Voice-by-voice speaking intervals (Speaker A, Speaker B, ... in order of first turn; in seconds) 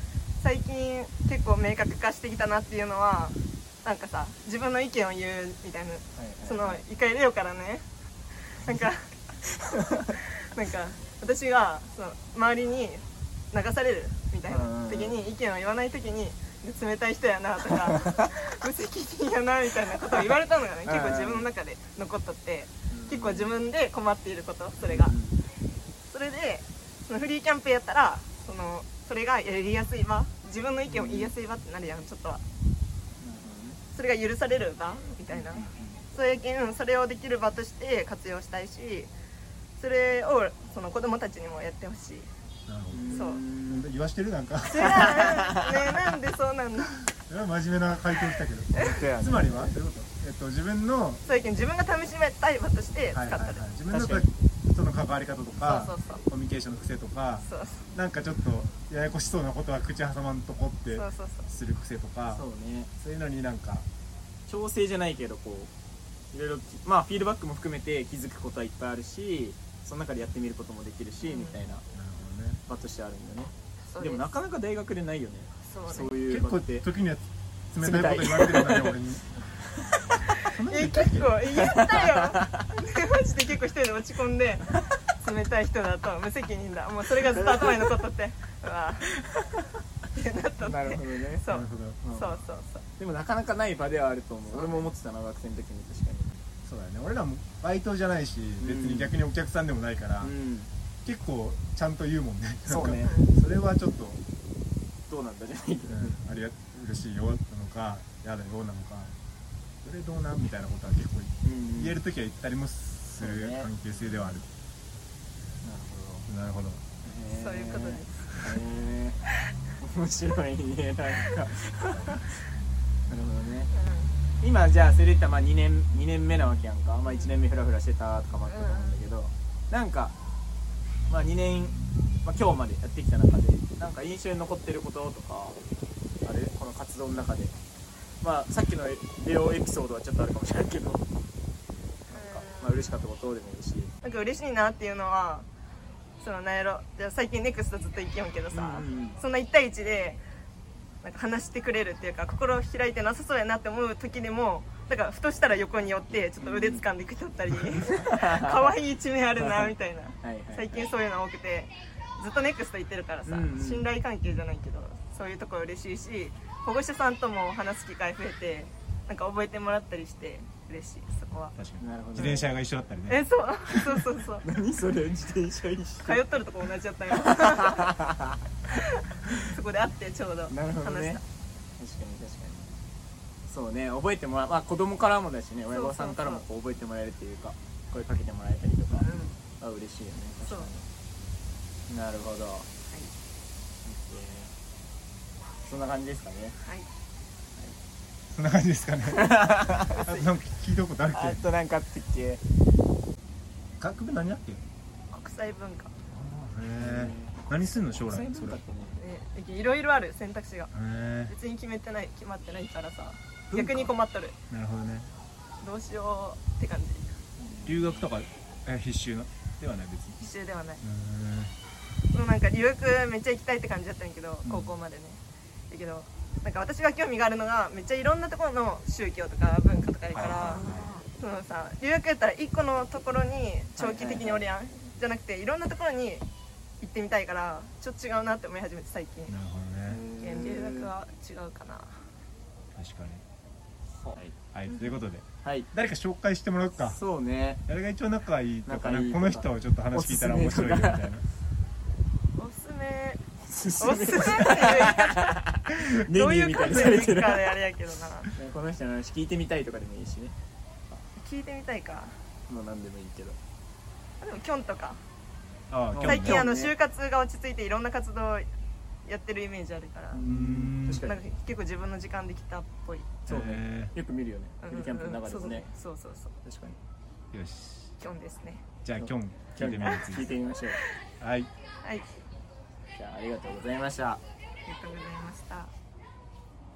Speaker A: 0.4-7.8, 8.5-9.1, 10.1-25.1, 26.1-32.4, 33.9-39.1, 39.8-42.3, 43.1-43.4, 44.7-47.1, 51.2-53.6, 55.6-56.2, 57.4-57.9, 60.9-61.5, 71.2-71.6, 73.8-74.2, 75.6-76.2, 80.7-89.2, 90.1-92.8, 94.5-94.9, 103.0-103.4, 117.3-118.3, 123.7-124.1, 127.1-127.3, 128.4-129.0, 142.1-143.0, 144.0-145.5, 146.2-150.2, 151.0-171.5, 173.1-174.4, 176.0-178.0, 178.7-181.2, 185.7-186.4, 188.9-189.3, 190.4-190.7, 196.6-196.9, 205.1-205.9, 209.0-210.7, 211.3-214.3, 215.6-217.1, 220.2-220.8, 222.1-225.2, 225.7-236.2, 236.8-239.3, 240.2-242.0, 244.7-245.0, 252.4-253.2, 253.8-255.3, 256.1-258.3, 261.1-262.2, 264.2-265.0, 266.1-268.5, 269.1-270.2, 270.9-273.2, 274.6-276.4, 278.0-278.6, 284.6-285.7
Speaker B: 6.2-6.8, 14.5-15.2, 20.8-21.5, 22.9-23.5, 24.8-25.4, 30.9-31.3, 33.2-33.8, 35.3-36.0, 42.9-43.9, 44.8-45.6, 48.8-49.7, 53.9-54.3, 62.3-62.9, 64.5-65.7, 66.3-71.8, 72.7-76.8, 77.8-79.0, 81.5-82.5, 87.5-87.9, 90.6-91.4, 92.0-92.4, 93.0-96.4, 98.6-99.2, 100.2-100.7, 102.7-103.2, 105.1-106.2, 111.4-112.0, 113.2-113.7, 115.6-116.3, 117.0-119.2, 119.8-122.2, 123.1-123.7, 124.4-130.1, 131.1-135.6, 136.2-137.5, 138.2-141.0, 142.1-143.9, 148.5-149.2, 156.4-156.8, 157.7-158.7, 159.4-160.9, 163.3-163.9, 171.8-172.5, 173.7-176.3, 177.2-178.3, 180.5-181.2, 181.8-182.7, 183.5-189.1, 189.6-190.8, 191.9-192.7, 193.8-194.5, 195.6-196.6, 199.1-200.0, 201.1-202.4, 206.8-207.4, 208.0-209.0, 213.5-213.9, 217.4-218.1, 230.4-231.0, 233.7-234.4, 239.8-240.9, 244.0-244.3, 245.4-245.7, 246.8-247.6, 248.7-251.1, 253.4-257.6, 258.3-260.3, 262.5-263.4, 265.9-266.7, 270.1-271.2, 273.2-275.7, 276.4-276.8, 278.9-280.8, 282.9-284.2
Speaker C: 42.7-45.2, 47.3-51.2, 53.1-62.4, 63.0-63.9, 71.9-72.6, 76.3-79.3, 80.5-81.4, 91.5-92.0, 96.6-100.3, 101.0-104.2, 105.9-109.1, 109.8-114.5, 116.3-116.8, 171.6-173.2, 198.3-201.4, 203.8-204.6, 206.1-208.6, 210.7-211.3, 214.5-215.1, 217.7-220.2, 220.8-221.5, 224.4-224.7, 230.1-230.9, 239.3-240.0, 242.7-243.2, 244.5-247.0, 247.7-251.2, 265.7-266.5, 270.2-271.1, 273.2-273.9, 277.3-277.9, 278.8-280.3, 281.2-281.5